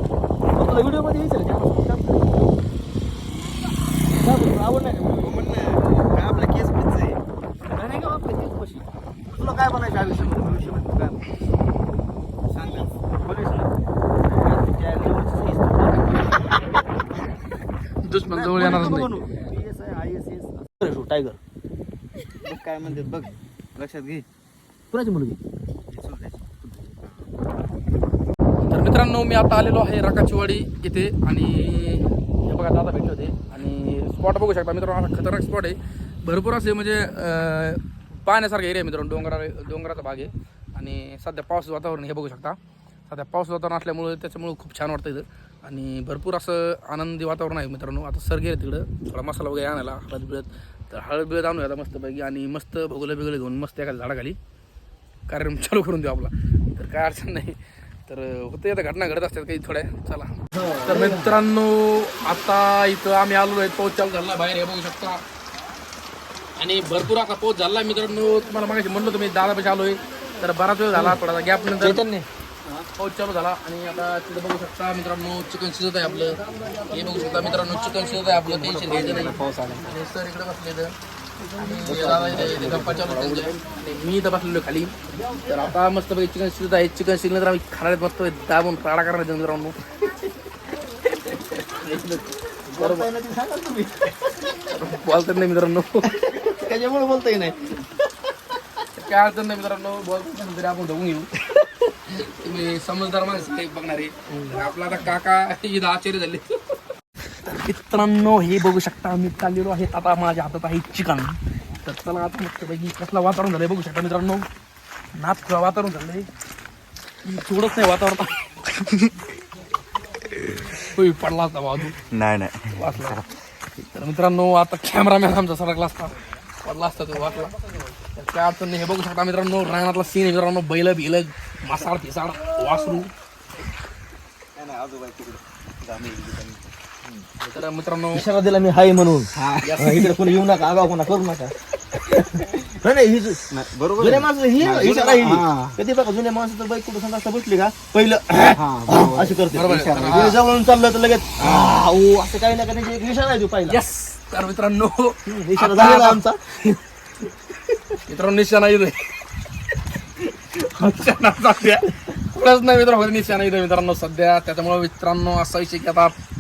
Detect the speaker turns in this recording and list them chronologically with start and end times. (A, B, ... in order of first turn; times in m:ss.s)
0:00.6-0:02.5 A
0:04.2-0:05.4 A
0:05.2-0:07.2 B
0:07.7-0:11.2 A
0:12.5-0:13.0 B
0:13.2-0:16.2 A
0:18.0-0:19.2 C
0:18.3-0:21.4 A
0:22.4-0:24.3 B
0:24.9-0:25.4 A
0:25.9-0:26.4 B
0:28.6-0:42.6 C
0:43.1-0:54.4 C
0:55.3-1:05.2 C
1:00.6-1:01.4 A
1:06.6-1:12.0 C
1:11.8-1:12.3 A
1:13.0-1:21.0 C
1:16.5-1:19.4 A
1:18.4-1:19.8 B
1:21.6-1:30.2 C
1:21.6-1:23.5 A
1:21.9-1:23.6 B
1:31.0-1:33.1 C
1:32.7-1:34.5 A
1:34.7-1:36.1 C
1:36.1-1:37.6 A
1:38.9-1:46.6 C
1:47.4-1:54.5 C
1:55.1-1:56.3 C
1:57.2-1:59.1 C
2:00.8-2:02.0 C
2:02.1-2:02.9 B
2:02.7-2:03.2 C
2:03.9-2:07.6 C
2:08.2-2:13.1 C
2:14.6-2:17.3 B
2:17.4-2:18.2 C
2:18.1-2:33.8 A
2:19.3-2:19.7 B
2:19.6-2:20.1 C
2:23.5-2:25.8 B
2:28.5-2:30.4 B
2:29.5-2:30.4 C
2:31.4-2:31.7 B
2:33.7-2:36.2 C
2:35.3-2:36.7 A
2:37.9-2:39.2 C
2:40.2-2:46.2 C